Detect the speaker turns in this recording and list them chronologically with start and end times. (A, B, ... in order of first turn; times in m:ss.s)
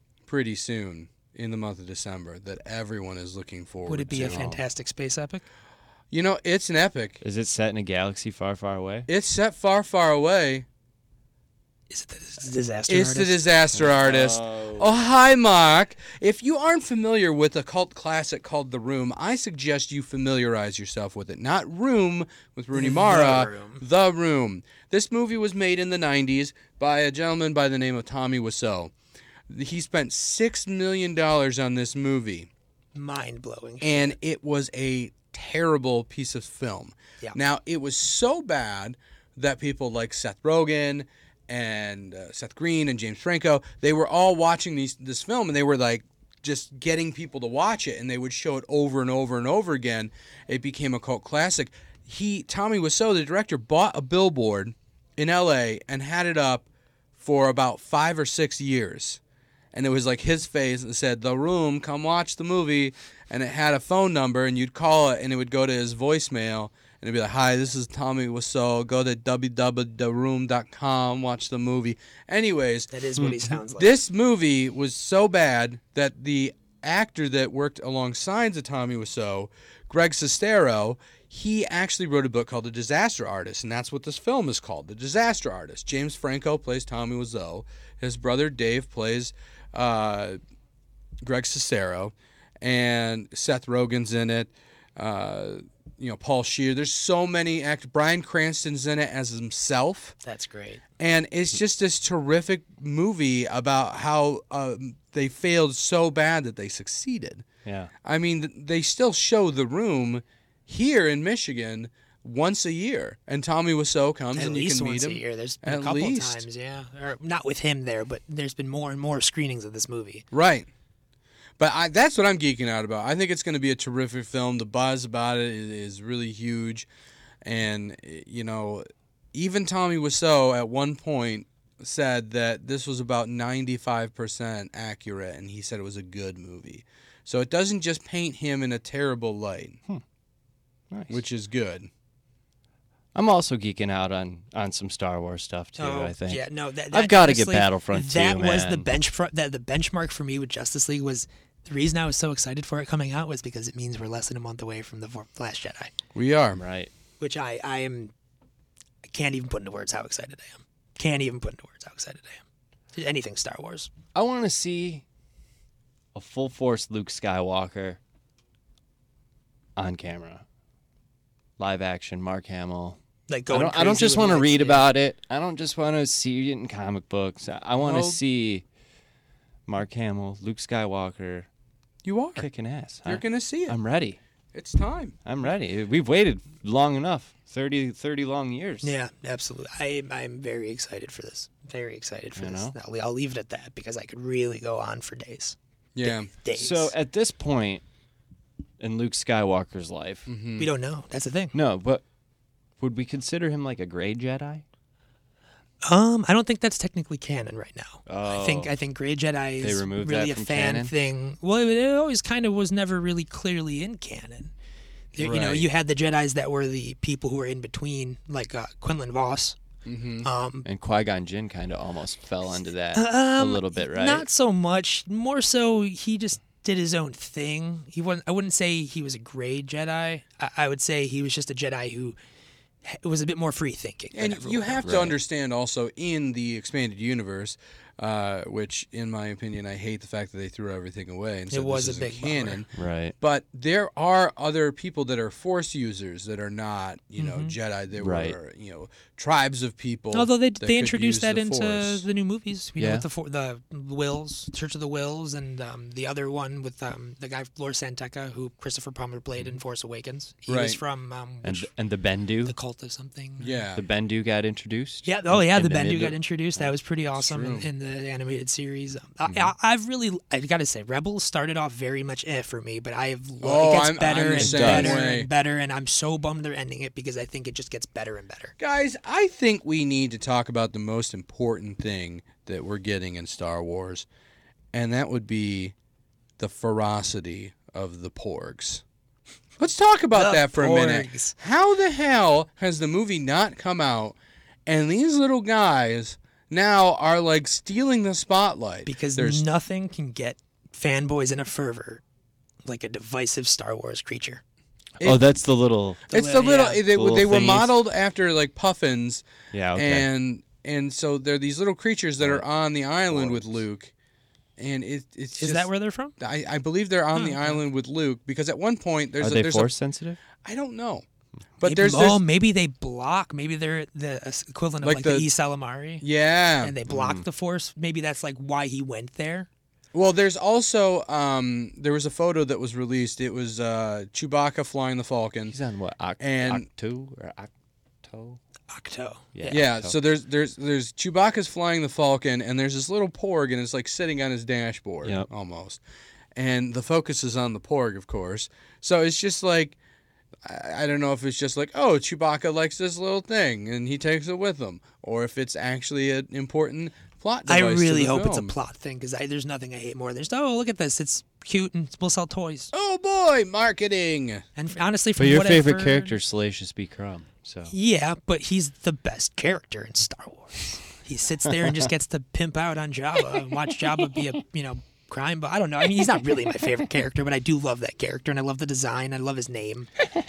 0:00.3-0:04.4 A
0:03.9-0:05.4 B
0:04.1-0:04.6 C
0:06.1-0:07.2 A
0:07.2-0:09.1 C
0:09.1-0:10.7 A
0:11.9-0:13.4 B
0:12.9-0:28.9 A
0:13.7-0:15.1 C
0:22.7-0:23.8 B
0:29.5-0:32.5 A
0:33.0-0:34.2 B
0:33.8-0:59.2 A
0:59.7-1:12.9 A
1:12.9-1:13.9 B
1:13.7-1:30.4 A
1:31.2-1:40.2 A
1:40.2-1:40.8 B
1:41.0-1:47.5 A
1:47.6-1:47.9 C
1:48.0-1:56.5 A
1:54.4-2:00.2 B
2:00.3-2:00.7 A
2:01.6-2:06.9 A
2:07.4-2:19.8 A
2:20.9-2:21.2 C
2:21.1-2:21.9 A
2:23.2-2:28.9 C
2:25.8-2:35.9 B
2:36.2-2:36.6 A
2:36.5-2:36.9 C
2:37.2-2:38.1 B
2:39.0-2:42.4 B
2:43.0-2:43.9 B
2:44.2-2:45.0 C
2:46.1-2:48.0 C
2:49.8-2:50.4 C
2:51.6-2:53.0 C
2:53.3-2:54.9 B
2:53.5-2:58.6 C
2:57.8-2:58.2 A
2:59.7-3:01.5 C
3:02.0-3:02.5 A
3:02.4-3:04.2 C
3:03.1-3:03.8 A
3:04.5-3:05.2 A
3:05.2-3:08.9 C
3:08.8-3:16.9 B
3:12.4-3:12.8 C
3:16.0-3:16.3 A
3:16.5-3:17.8 C
3:18.8-3:20.3 C
3:20.3-3:20.7 A
3:20.6-3:21.6 B
3:21.5-3:22.0 C
3:22.8-3:24.6 C
3:25.8-3:34.5 B
3:28.1-3:28.7 C
3:29.6-3:30.9 C
3:35.1-3:39.6 B
3:35.2-3:35.7 A
3:39.8-3:40.3 A
3:40.2-3:40.7 B
3:40.6-3:44.3 C
3:42.9-3:52.2 B
3:52.8-3:55.0 B
3:54.2-4:12.0 A
3:54.8-3:55.2 C
4:01.5-4:02.6 B
4:02.7-4:03.1 C
4:07.2-4:07.6 B
4:08.0-4:08.4 C
4:10.1-4:21.7 B
4:12.8-4:13.1 C
4:20.5-4:20.8 A
4:21.4-4:22.6 C
4:22.5-4:23.6 B
4:23.4-4:23.8 A
4:23.8-4:26.7 C
4:25.0-4:38.6 B
4:27.2-4:27.7 A
4:33.4-4:35.3 A
4:34.4-4:35.0 C
4:38.6-4:44.1 A
4:44.7-4:45.7 A
4:46.4-4:48.8 A
4:49.6-4:54.2 A
4:50.1-4:51.4 B
4:54.7-4:59.4 A
4:58.9-5:02.0 B
5:02.6-5:04.4 B
5:05.0-5:05.2 A
5:05.0-5:06.1 C
5:06.1-5:13.9 A
5:06.1-5:06.8 B
5:06.8-5:07.7 C
5:09.5-5:10.1 C
5:12.2-5:12.5 C
5:13.1-5:13.6 C
5:14.6-5:15.7 A
5:15.4-5:16.1 B
5:16.2-5:19.7 A
5:17.2-5:17.6 B
5:19.2-5:20.2 C
5:20.4-5:21.1 A
5:21.6-5:22.2 A
5:21.6-5:26.0 B
5:24.8-5:25.3 A
5:26.0-5:26.8 A
5:26.6-5:29.5 B
5:26.9-5:27.3 C
5:29.9-5:35.6 A
5:35.5-5:37.5 C
5:36.2-5:36.7 A
5:38.0-5:38.4 C
5:38.7-5:39.3 B
5:39.4-5:40.0 C
5:39.5-5:45.8 A
5:45.0-5:45.3 C
5:46.4-5:49.8 A
5:50.4-5:58.6 A
5:57.5-6:02.7 B
6:02.7-6:04.4 A
6:04.6-6:06.2 B
6:05.2-6:07.7 C
6:07.7-6:19.9 B
6:13.3-6:13.6 C